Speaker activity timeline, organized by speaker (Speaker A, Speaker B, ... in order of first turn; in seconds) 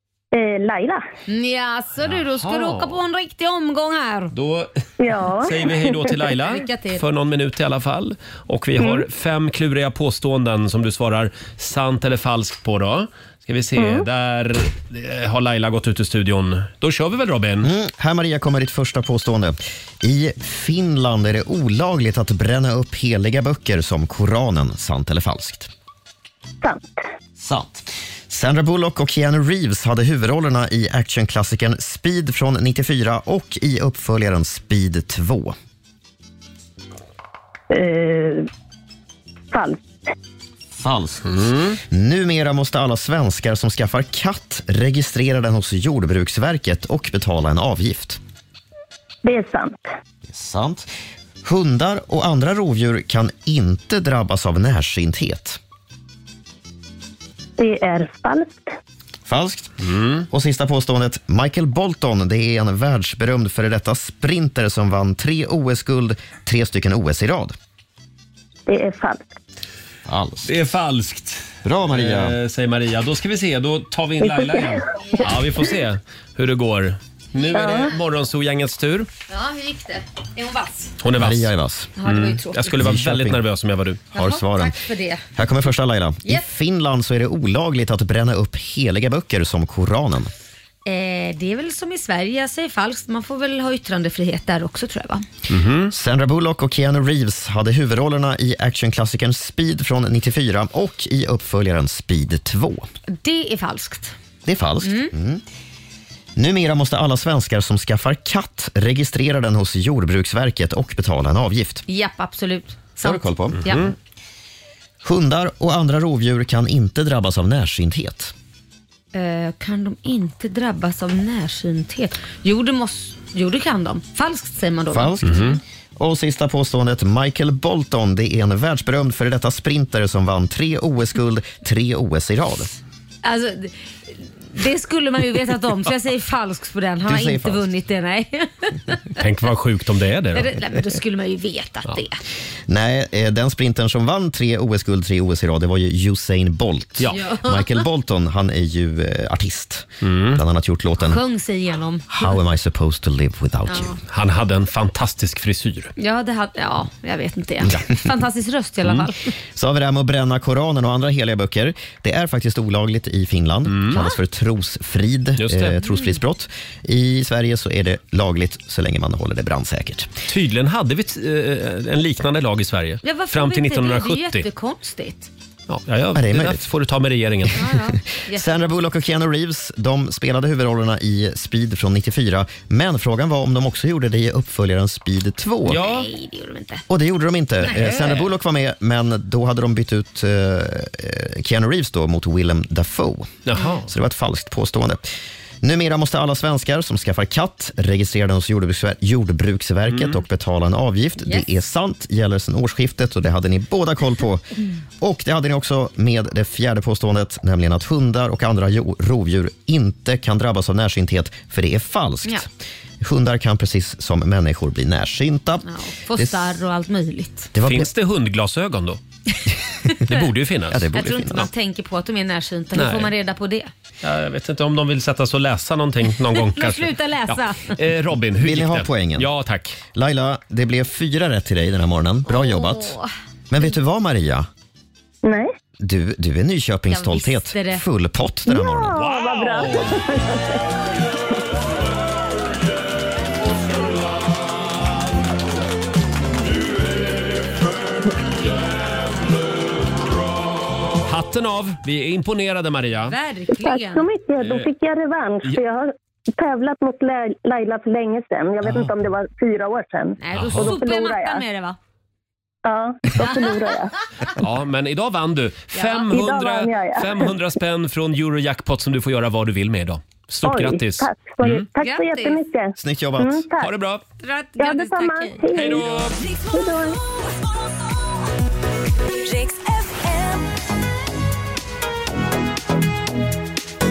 Speaker A: 0.3-1.0, 5.0-6.2, 13.8-14.1, 26.6-27.1, 37.7-38.5, 39.5-39.8, 49.2-49.9, 57.6-58.7, 68.7-69.3, 74.2-74.8, 77.5-77.9, 235.2-235.5, 238.5-240.6, 253.6-261.4, 262.6-263.9, 266.1-267.4, 270.4-273.7, 274.6-275.9, 276.5-277.0
Speaker B: 1.3-4.3, 6.5-7.0, 79.3-80.9, 82.0-82.7, 84.1-85.2, 90.9-95.2, 103.1-104.2, 104.8-105.1, 111.9-113.9, 119.1-125.6, 133.2-139.2, 140.3-142.2, 151.0-152.4, 153.7-154.0, 156.0-159.3, 173.0-175.3, 177.5-178.5, 185.7-186.8, 187.6-188.2, 201.2-201.5, 215.7-217.5, 220.9-223.7, 226.3-227.8, 232.3-233.1, 236.9-237.8, 253.1-254.1, 260.2-261.8, 263.2-263.6, 265.7-266.1, 271.8-272.4, 274.2-275.8
Speaker C: 2.1-3.0, 4.3-4.7, 5.4-17.7, 41.3-41.8, 59.8-60.2, 70.4-79.1, 81.0-84.0, 95.5-95.9, 113.6-113.9, 125.2-125.6, 139.2-140.5, 150.0-150.4, 154.1-155.9, 163.7-164.0, 165.4-165.8, 170.3-174.5, 175.7-177.7, 185.7-186.1, 187.7-188.3, 193.5-193.9, 199.9-200.2, 217.6-219.0, 220.1-221.5, 222.8-223.1, 224.0-229.8, 238.9-240.0, 251.1-253.2, 254.4-254.7, 260.4-260.8, 264.4-271.7, 273.6-274.0, 275.5-276.2
Speaker D: 17.6-25.7, 27.4-35.5, 40.8-48.2, 50.3-50.9, 51.4-55.6, 59.3-59.8, 60.3-67.5, 70.1-70.5, 71.6-72.4, 81.2-81.9, 82.7-83.4, 84.1-90.3, 95.9-102.9, 104.5-105.4, 106.4-111.8, 113.0-113.8, 115.0-118.3, 124.9-132.8, 137.0-137.7, 142.7-151.2, 152.1-153.9, 159.5-170.1, 176.2-176.6, 177.6-185.8, 186.9-195.0, 195.6-204.5, 205.0-212.5, 213.0-216.6, 217.5-217.9, 220.7-221.5, 228.4-229.3, 229.9-233.0, 233.5-234.5, 235.8-239.0, 272.8-273.4
Speaker E: 276.1-277.0, 279.3-280.3